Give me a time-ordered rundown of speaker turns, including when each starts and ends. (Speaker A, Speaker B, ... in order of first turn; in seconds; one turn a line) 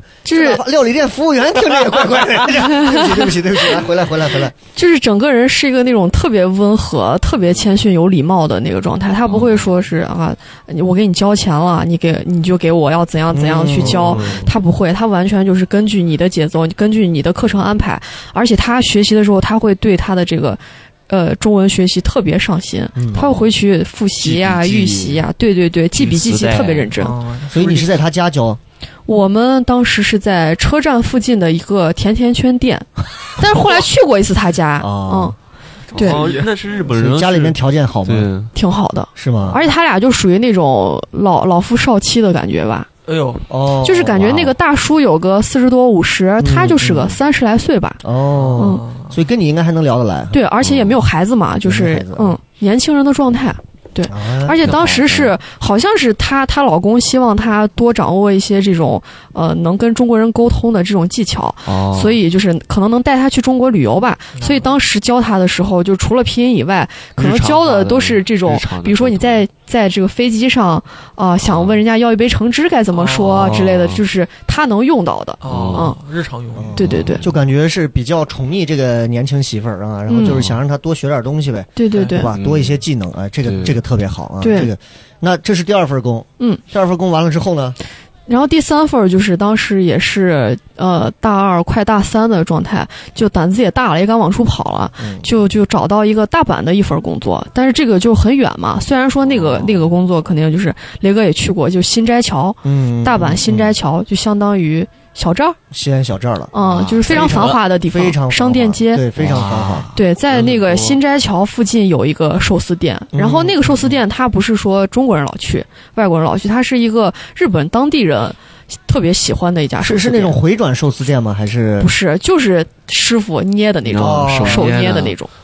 Speaker A: 0.2-0.6
Speaker B: 0.3-4.5
Speaker A: 2.6-3.3
Speaker A: 4.7-27.1
Speaker C: 9.2-9.7
Speaker B: 13.3-14.5
Speaker C: 13.9-14.5
Speaker B: 22.9-23.3
Speaker C: 23.2-23.4
Speaker C: 24.2-25.2
Speaker C: 25.9-27.0
Speaker D: 27.0-28.0
Speaker B: 27.5-28.6
Speaker A: 29.1-35.4
Speaker B: 34.8-35.3
Speaker D: 35.9-36.5
Speaker C: 35.9-38.5
Speaker A: 35.9-36.2
Speaker B: 36.9-38.3
Speaker A: 38.5-42.9
Speaker B: 39.1-39.6
Speaker D: 43.0-43.4
Speaker B: 43.5-44.5
Speaker A: 43.8-48.0
Speaker B: 46.4-47.2
Speaker B: 48.0-50.4
Speaker D: 48.4-49.1
Speaker A: 48.6-48.8
Speaker A: 50.3-76.0
Speaker C: 50.6-50.9
Speaker B: 51.6-52.4
Speaker B: 54.1-54.7
Speaker C: 54.6-55.3
Speaker C: 61.7-62.2
Speaker D: 64.3-64.7
Speaker C: 67.2-69.4
Speaker C: 71.4-71.8
Speaker D: 72.9-73.5
Speaker C: 73.4-74.0
Speaker D: 75.4-76.8
Speaker C: 75.4-75.9
Speaker B: 76.5-87.8
Speaker A: 76.7-77.3
Speaker C: 76.8-77.3
Speaker A: 80.1-80.4
Speaker C: 80.2-80.6
Speaker A: 81.8-82.3
Speaker C: 82.3-82.8
Speaker C: 83.4-83.8
Speaker A: 84.4-84.7
Speaker A: 88.3-105.6
Speaker B: 95.0-95.2
Speaker C: 99.2-99.9
Speaker B: 102.6-103.7
Speaker B: 105.7-109.9
Speaker A: 106.5-109.1
Speaker C: 106.6-107.5
Speaker C: 109.2-111.0
Speaker A: 109.9-120.4
Speaker B: 113.1-113.9
Speaker B: 119.8-121.9
Speaker A: 121.8-125.3
Speaker C: 123.8-125.2
Speaker B: 124.0-124.7